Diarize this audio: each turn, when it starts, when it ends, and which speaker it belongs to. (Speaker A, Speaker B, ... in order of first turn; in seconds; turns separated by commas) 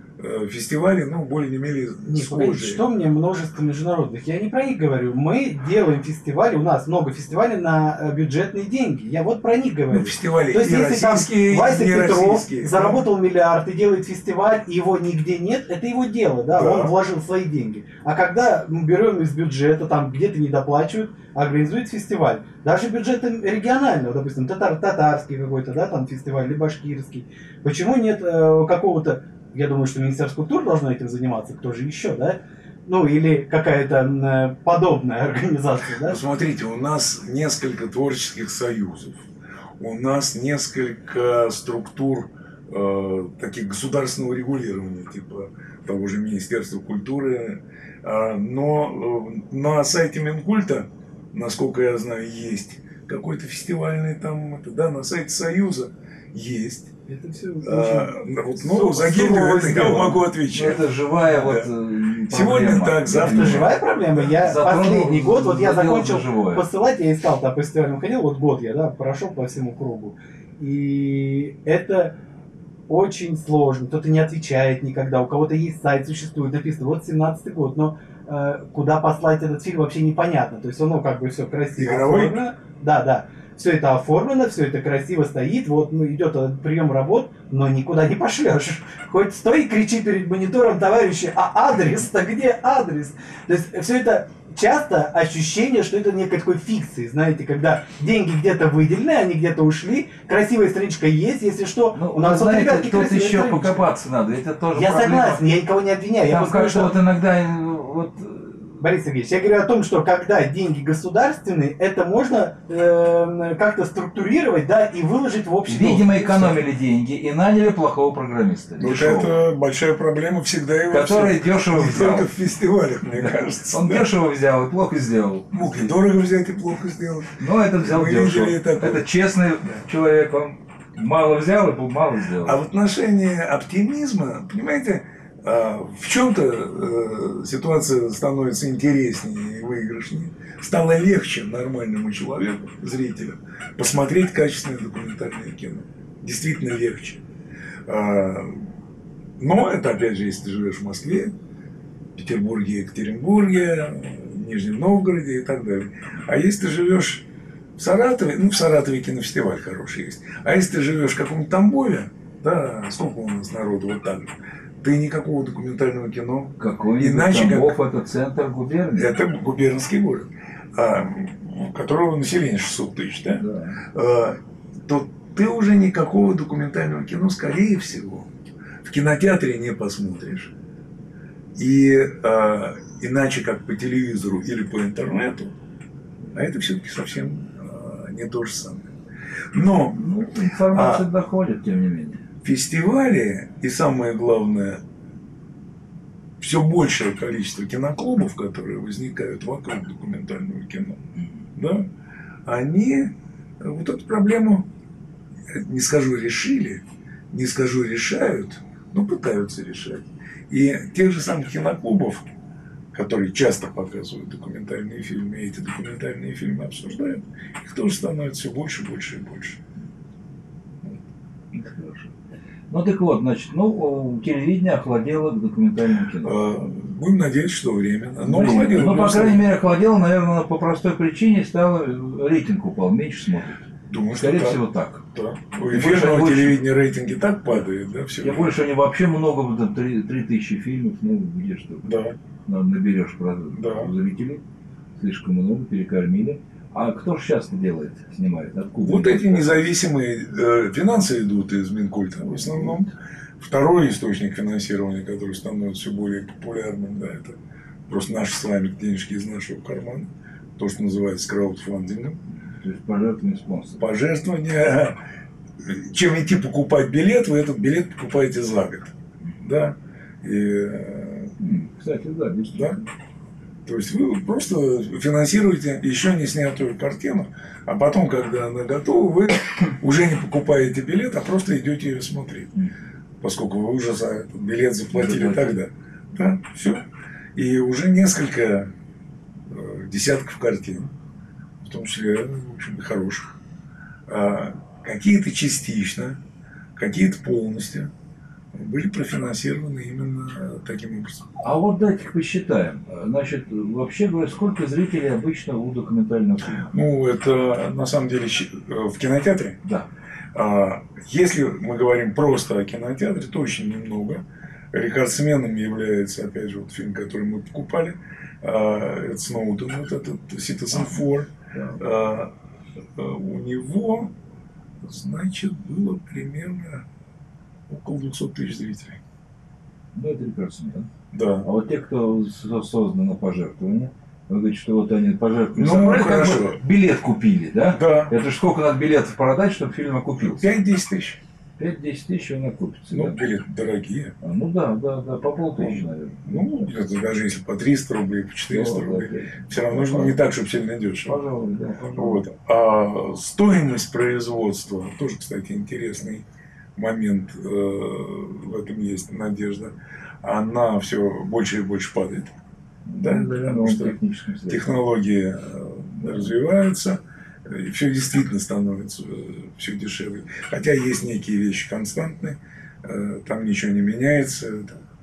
Speaker A: 0.2-2.8, Speaker B: 2.1-36.2, Speaker A: 9.9-13.1, Speaker A: 16.5-16.9, Speaker A: 36.0-39.3, Speaker A: 39.8-56.9, Speaker B: 57.1-60.2, Speaker A: 57.6-61.7, Speaker C: 60.5-66.6, Speaker A: 62.3-64.3, Speaker B: 63.2-72.2, Speaker B: 72.9-103.9, Speaker A: 81.8-82.4, Speaker C: 101.9-105.4, Speaker B: 104.7-107.0, Speaker C: 106.3-108.8, Speaker B: 108.8-116.6, Speaker C: 115.7-119.3, Speaker A: 118.8-124.1, Speaker C: 120.9-122.3, Speaker C: 123.1-125.9, Speaker A: 125.5-129.1, Speaker C: 127.4-132.6, Speaker A: 132.4-147.2, Speaker A: 147.9-148.7, Speaker A: 149.4-151.3, Speaker A: 152.2-167.8, Speaker C: 166.6-169.1, Speaker A: 169.0-178.3, Speaker C: 173.4-173.8, Speaker A: 178.8-180.6, Speaker A: 181.6-185.6, Speaker A: 186.3-188.9, Speaker A: 189.5-190.2, Speaker C: 189.9-192.2, Speaker A: 190.7-191.1, Speaker A: 192.4-194.8, Speaker A: 196.4-201.0, Speaker A: 201.6-201.9, Speaker A: 202.4-204.7, Speaker A: 205.5-212.3, Speaker A: 212.9-219.6, Speaker C: 221.5-222.1, Speaker C: 222.7-226.4, Speaker A: 226.2-229.5, Speaker C: 228.2-233.7, Speaker A: 233.9-234.6, Speaker C: 234.2-235.1, Speaker A: 235.1-238.6, Speaker C: 235.7-236.6, Speaker C: 238.2-241.9, Speaker A: 241.8-242.2, Speaker C: 242.5-244.4, Speaker A: 243.6-243.9, Speaker C: 245.0-249.7, Speaker A: 248.8-262.2, Speaker C: 262.3-263.9, Speaker A: 263.8-265.0, Speaker A: 265.6-271.4, Speaker C: 271.4-272.9, Speaker A: 273.7-282.5, Speaker A: 283.2-288.7, Speaker C: 284.9-285.6, Speaker A: 289.5-290.9, Speaker A: 291.6-293.4, Speaker A: 294.1-296.2, Speaker A: 296.8-297.9, Speaker A: 298.5-301.4, Speaker C: 301.4-306.7, Speaker A: 306.6-309.6, Speaker A: 310.3-322.3, Speaker C: 321.5-321.8, Speaker A: 322.9-324.1, Speaker A: 324.8-326.9, Speaker A: 327.7-329.0, Speaker C: 329.9-330.9, Speaker A: 331.1-331.5, Speaker C: 331.4-340.5, Speaker A: 335.6-336.6, Speaker A: 337.7-338.1, Speaker A: 340.3-341.2, Speaker C: 341.6-343.3, Speaker A: 342.9-344.1, Speaker C: 344.2-346.7, Speaker A: 345.6-351.2, Speaker C: 348.5-350.2, Speaker C: 351.0-352.3, Speaker A: 351.9-356.2, Speaker A: 356.8-362.3, Speaker C: 362.9-364.8, Speaker A: 363.0-364.0, Speaker A: 364.5-374.8